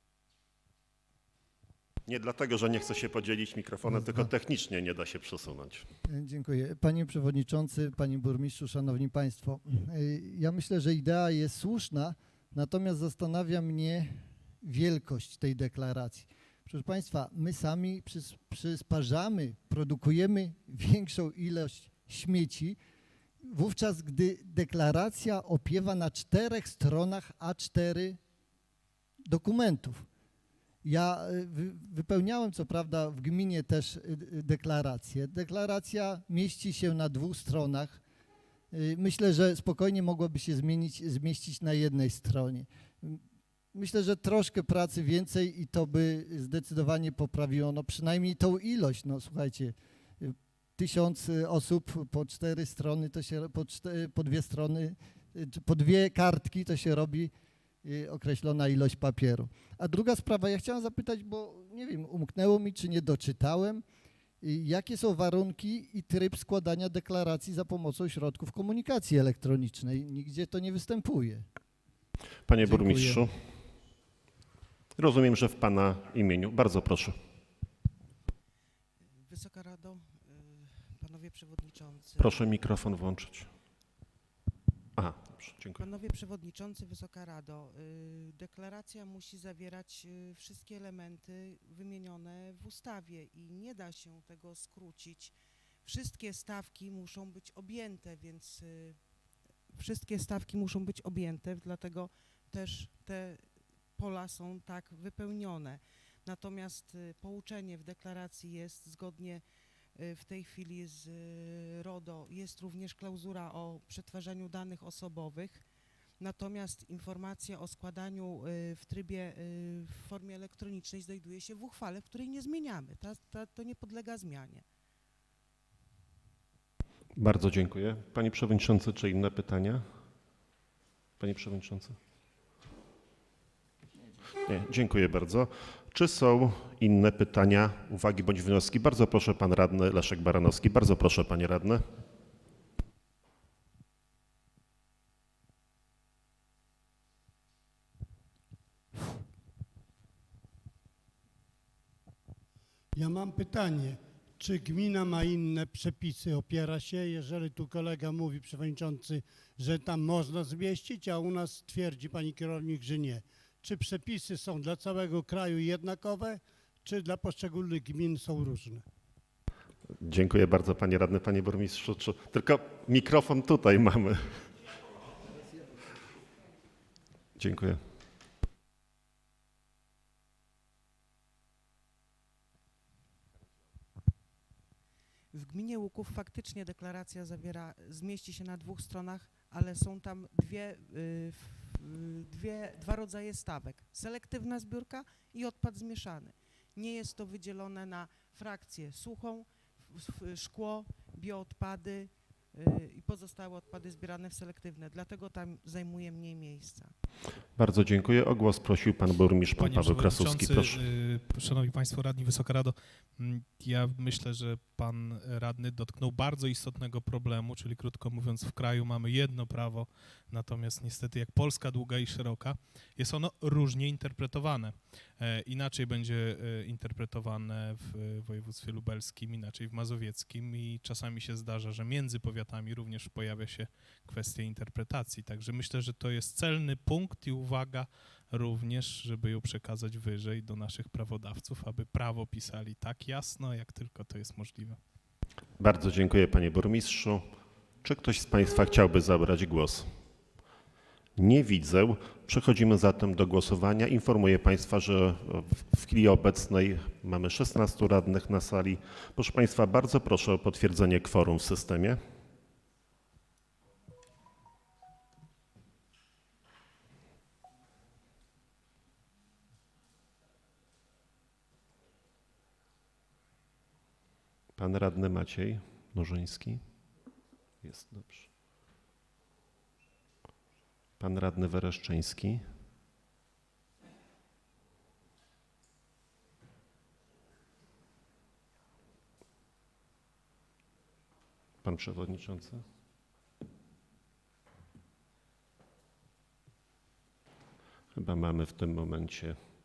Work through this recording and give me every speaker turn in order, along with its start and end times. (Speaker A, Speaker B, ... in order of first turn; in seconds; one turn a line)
Speaker A: 2.0-5.9
Speaker B: 6.1-22.8
Speaker B: 23.4-28.2
Speaker B: 29.3-30.1
Speaker B: 30.8-38.0
Speaker B: 38.7-43.2
Speaker B: 43.7-57.3
Speaker B: 57.8-63.8
Speaker B: 64.4-71.5
Speaker A: 72.5-73.3
Speaker B: 72.6-73.3
Speaker A: 75.0-77.2
Speaker C: 79.2-82.4
Speaker A: 82.2-83.5
Speaker A: 85.0-85.8
Speaker C: 85.8-99.0
Speaker C: 99.7-109.4
Speaker C: 109.9-115.6
Speaker C: 116.2-124.6
Speaker A: 127.2-129.8
Speaker A: 131.2-132.0
Speaker A: 134.4-141.8
Speaker D: 152.9-168.8
Speaker A: 170.0-174.5
Speaker A: 177.3-177.8
Speaker C: 185.3-206.9
Speaker A: 207.6-210.8
Speaker E: 209.6-244.8
Speaker A: 245.6-247.2
Speaker A: 247.8-249.9
Speaker A: 251.2-262.0
Speaker A: 274.6-276.6
Speaker A: 277.6-278.3
Speaker A: 281.0-282.4
Speaker A: 291.6-292.6
Speaker A: 297.9-299.4